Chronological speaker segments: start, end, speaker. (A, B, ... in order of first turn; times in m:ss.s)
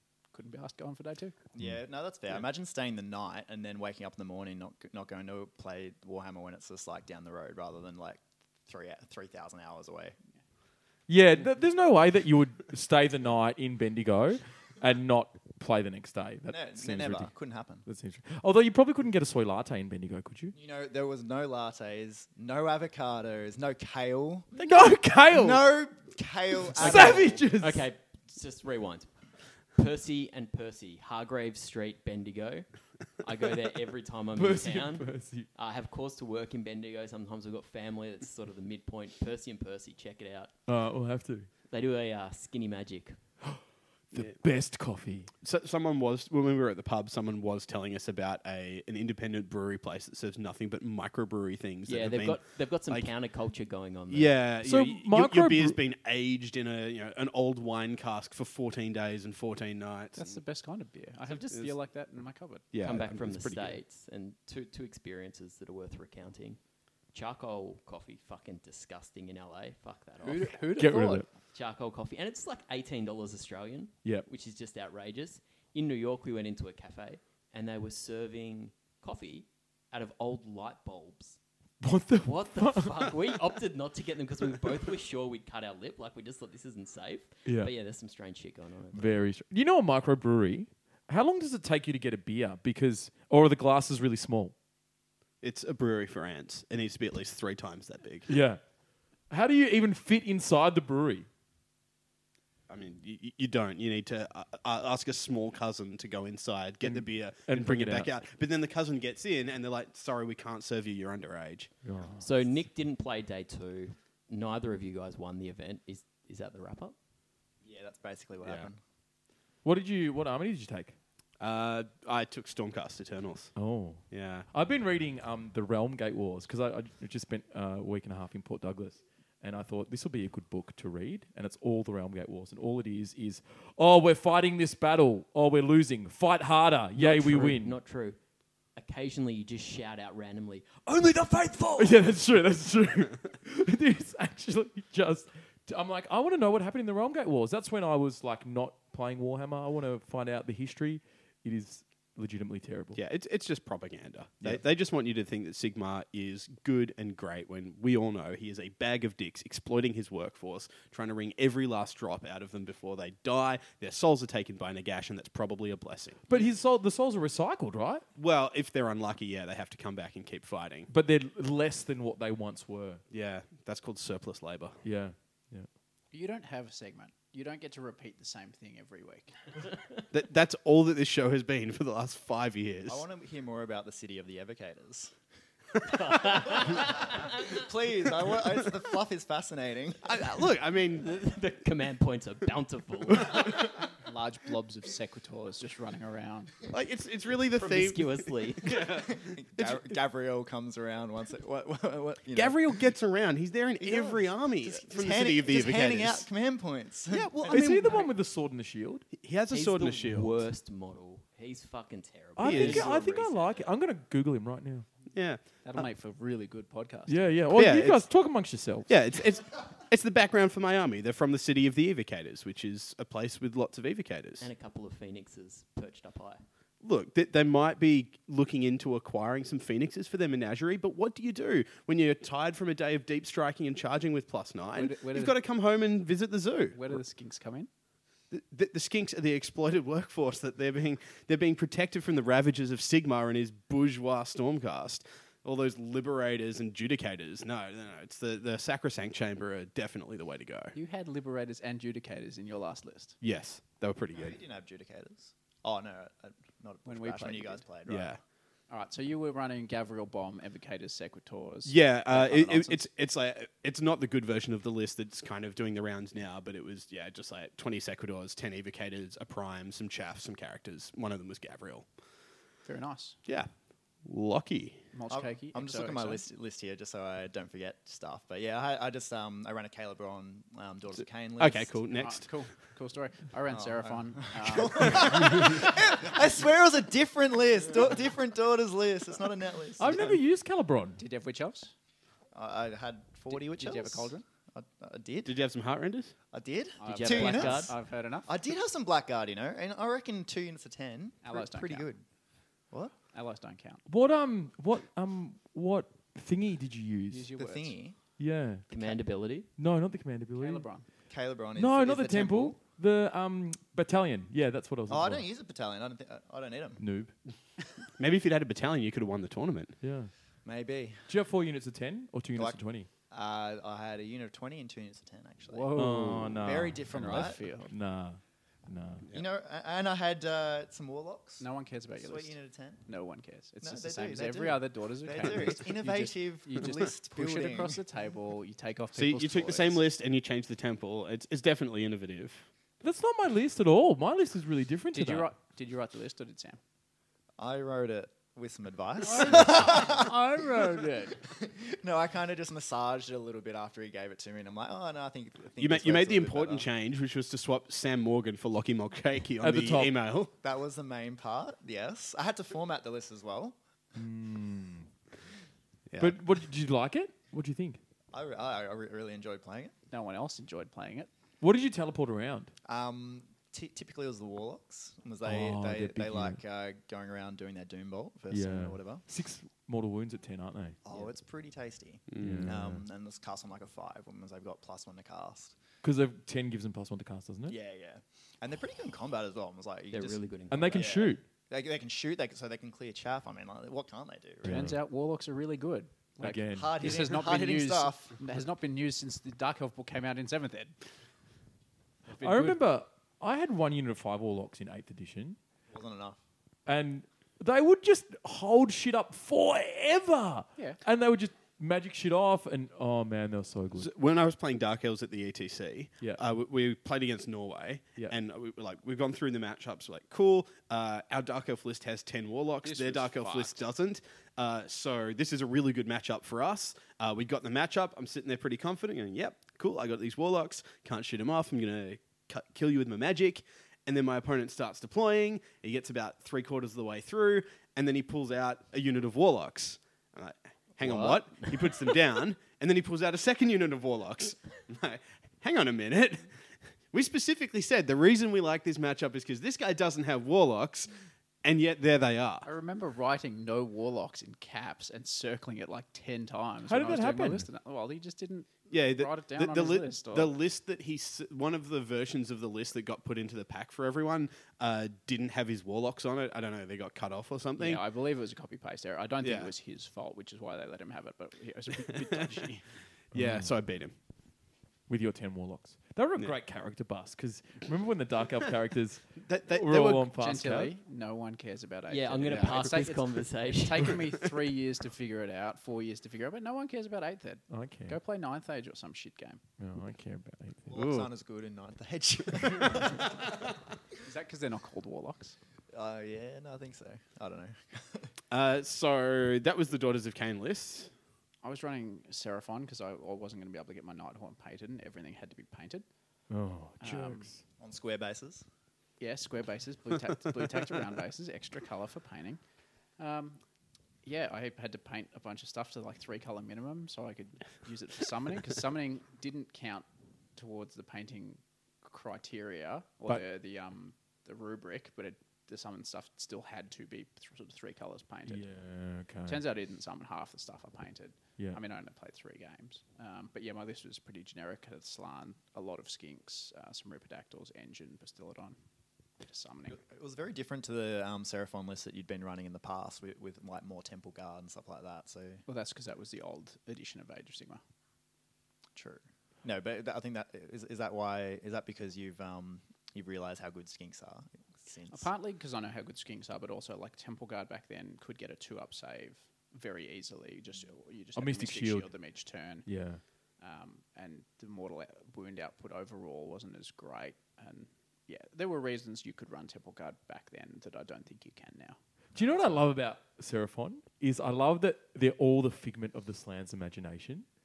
0:00.3-0:01.3 A
0:01.6-0:10.1 B
0:11.1-0:17.3 C
0:16.5-0:17.9 B
0:17.8-0:20.5 C
0:20.5-0:24.6 B
0:24.6-0:25.7 C
0:25.3-0:27.4 B
0:26.8-0:27.9 C
0:26.8-0:29.1 D
0:29.8-0:32.7 D
0:33.2-0:40.5 D
0:34.3-0:35.5 C
0:40.7-0:41.5 C
0:41.7-0:43.2 D
0:44.1-0:45.3 C
0:45.4-0:53.1 E
0:51.8-0:54.4 D
0:54.1-1:00.4 E
0:54.6-0:55.8 C
1:00.1-1:02.7 A
1:02.7-1:03.8 E
1:02.8-1:06.6 D
1:07.1-1:10.7 D
1:10.2-1:11.3 A
1:10.8-1:11.3 C
1:11.5-1:21.4 D
1:21.8-1:23.1 C
1:22.2-1:29.1 D
1:27.4-1:27.7 C
1:28.9-1:34.5 C
1:35.4-1:38.4 E
1:38.3-1:38.6 C
1:39.3-1:41.3 C
1:42.7-1:51.7 E
1:46.8-1:48.1 C
1:51.8-1:52.2 C
1:52.2-1:57.0 D
1:57.6-1:58.8 B
1:59.6-2:01.0 C
2:01.4-2:03.5 E
2:03.6-2:17.8 C
2:04.1-2:04.5 E
2:17.0-2:18.2 D
2:18.8-2:22.0 D
2:21.8-2:33.0 C
2:33.0-2:46.2 E
2:46.3-2:48.0 C
2:48.1-2:50.9 E
2:50.9-2:53.0 C
2:53.1-2:54.8 E
2:54.8-2:55.7 C
2:56.1-2:59.3 A
3:00.1-3:03.0 E
3:02.9-3:05.1 B
3:05.9-3:07.1 D
3:06.0-3:10.1 B
3:10.0-3:11.2 E
3:11.0-3:13.8 D
3:14.0-3:16.5 A
3:16.7-3:19.9 E
3:17.5-3:18.8 D
3:19.0-3:22.8 B
3:22.3-3:26.3 E
3:23.8-3:28.0 B
3:27.1-3:28.1 E
3:27.5-3:29.1 C
3:29.1-3:30.4 E
3:29.5-3:33.6 D
3:32.4-3:34.9 C
3:32.4-3:32.9 E
3:35.1-3:35.8 E
3:35.6-3:37.3 A
3:37.1-3:39.0 C
3:37.5-3:38.2 E
3:38.9-3:44.5 E
3:44.4-3:46.4 D
3:46.8-3:56.8 E
3:54.8-3:55.4 A
3:56.7-3:57.7 A
3:58.3-4:10.8 E
4:10.8-4:13.2 A
4:13.2-4:14.4 E
4:14.1-4:18.1 B
4:16.8-4:17.6 A
4:17.9-4:18.2 E
4:18.7-4:22.9 A
4:21.6-4:31.9 E
4:32.6-4:33.2 A
4:34.0-4:34.8 E
4:34.9-4:36.2 A
4:35.1-4:41.8 B
4:41.4-4:42.3 E
4:42.0-4:45.5 A
4:43.5-4:50.2 B
4:49.8-4:51.0 C
4:51.0-4:51.7 A
4:52.3-4:55.4 B
4:53.3-4:54.2 A
4:55.2-4:56.1 E
4:56.3-5:02.0 B
4:56.8-4:58.3 A
4:56.8-4:57.8 D
5:01.2-5:01.9 A
5:03.1-5:03.8 A
5:03.9-5:07.3 C
5:07.1-5:07.8 A
5:07.4-5:08.0 B
5:08.2-5:08.6 C
5:08.7-5:09.5 D
5:09.6-5:10.7 C
5:10.4-5:10.9 A
5:11.1-5:12.6 B
5:11.6-5:15.2 C
5:14.9-5:16.8 B
5:16.8-5:17.1 C
5:18.0-5:19.8 E
5:19.8-5:20.1 C
5:20.4-5:21.1 B
5:21.1-5:22.9 C
5:22.4-5:25.8 B
5:25.5-5:27.7 A
5:25.8-5:29.0 C
5:26.4-5:27.4 B
5:29.1-5:31.4 B
5:31.4-5:39.8 A
5:32.0-5:32.8 B
5:33.6-5:37.8 B
5:39.0-5:42.5 E
5:42.8-5:45.3 C
5:44.9-5:46.6 A
5:47.4-5:50.1 B
5:49.0-5:51.1 A
5:51.2-5:56.7 B
5:55.6-6:00.3 E
5:59.4-5:59.9 C
6:00.4-6:03.6 B
6:04.0-6:04.9 C
6:05.9-6:06.2 E
6:06.0-6:07.8 C
6:08.1-6:09.7 B
6:09.9-6:11.1 A
6:11.4-6:12.5 C
6:12.6-6:19.0 B
6:15.2-6:16.4 C
6:18.3-6:20.8 C
6:20.8-6:25.6 B
6:22.1-6:22.5 E
6:22.2-6:22.8 C
6:25.8-6:27.6 C
6:27.5-6:34.7 B
6:29.9-6:31.0 D
6:30.5-6:31.2 C
6:34.4-6:34.8 C
6:34.4-6:40.7 A
6:36.2-6:37.0 C
6:36.5-6:38.1 B
6:42.1-6:42.6 A
6:42.2-6:45.4 C
6:45.7-6:46.2 B
6:46.6-6:53.9 C
6:53.8-7:26.3 E
7:02.6-7:03.6 A
7:20.8-7:21.7 D
7:26.9-7:30.9 E
7:31.4-7:32.5 E
7:32.4-7:40.4 A
7:36.7-7:37.5 C
7:38.7-7:47.8 E
7:47.6-7:52.6 A
7:49.2-7:49.5 E
7:53.1-7:53.9 E
7:53.1-7:53.5 C
7:54.9-8:00.7 C
7:59.2-8:00.1 E
8:00.2-8:09.4 A
8:01.9-8:04.0 D
8:02.3-8:02.6 E
8:07.5-8:08.0 C
8:09.6-8:11.1 C
8:10.7-8:13.5 B
8:14.0-8:15.4 A
8:15.7-8:18.1 B
8:18.3-8:20.9 E
8:21.4-8:25.8 A
8:26.3-8:27.4 C
8:26.8-8:27.3 A
8:27.6-8:28.4 B
8:29.0-8:32.4 A
8:33.0-8:33.4 A
8:34.0-8:48.5 A
8:48.3-8:49.4 C
8:49.2-8:58.6 A
8:59.2-8:59.8 A
8:59.7-9:05.4 B
9:05.5-9:07.6 A
9:08.8-9:15.1 B
9:14.9-9:22.7 A
9:21.2-9:23.0 C
9:23.4-9:32.6 A
9:32.1-9:37.3 C